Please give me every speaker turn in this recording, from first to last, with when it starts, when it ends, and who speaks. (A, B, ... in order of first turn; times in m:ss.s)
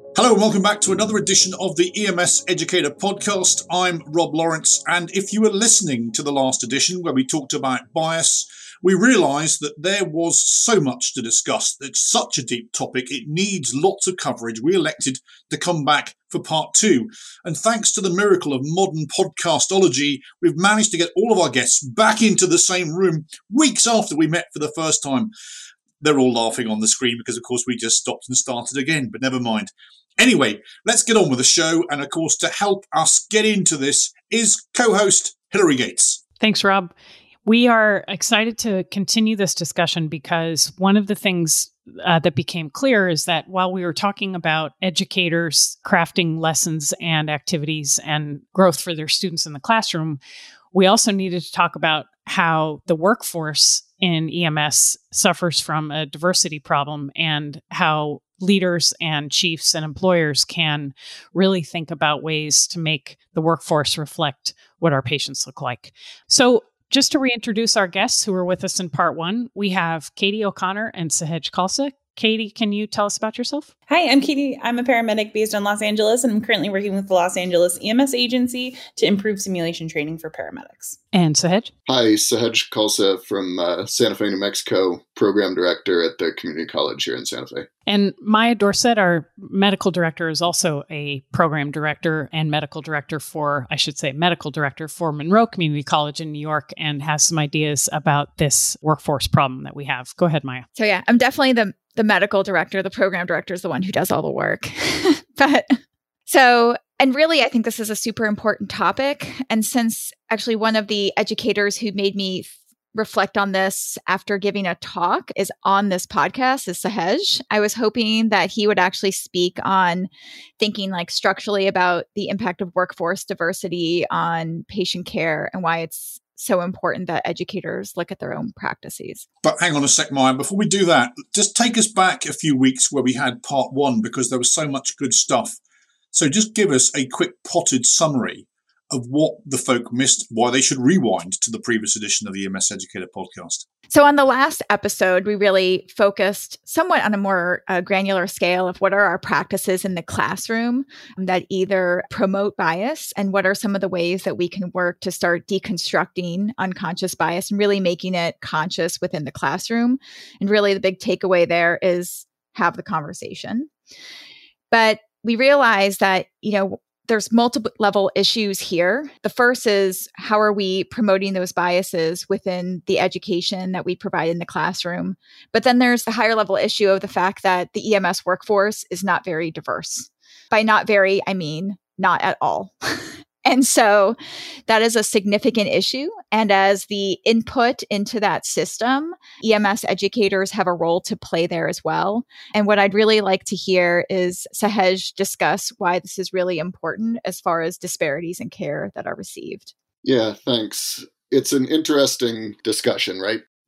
0:00.1-0:25.3 A
0:26.0-0:36.2 A
0:36.4-0:36.9 B
0:37.4-0:50.2 B
0:50.7-1:13.7 B
1:13.9-1:21.0 C
1:21.1-1:21.7 B
1:21.9-1:27.7 D
1:27.9-1:40.6 B
1:40.8-2:09.2 E
2:09.4-2:15.6 A
2:16.1-2:23.6 A
2:23.9-2:43.7 E
2:44.7-3:04.2 E
3:04.7-3:19.7 E
3:20.0-3:23.4 D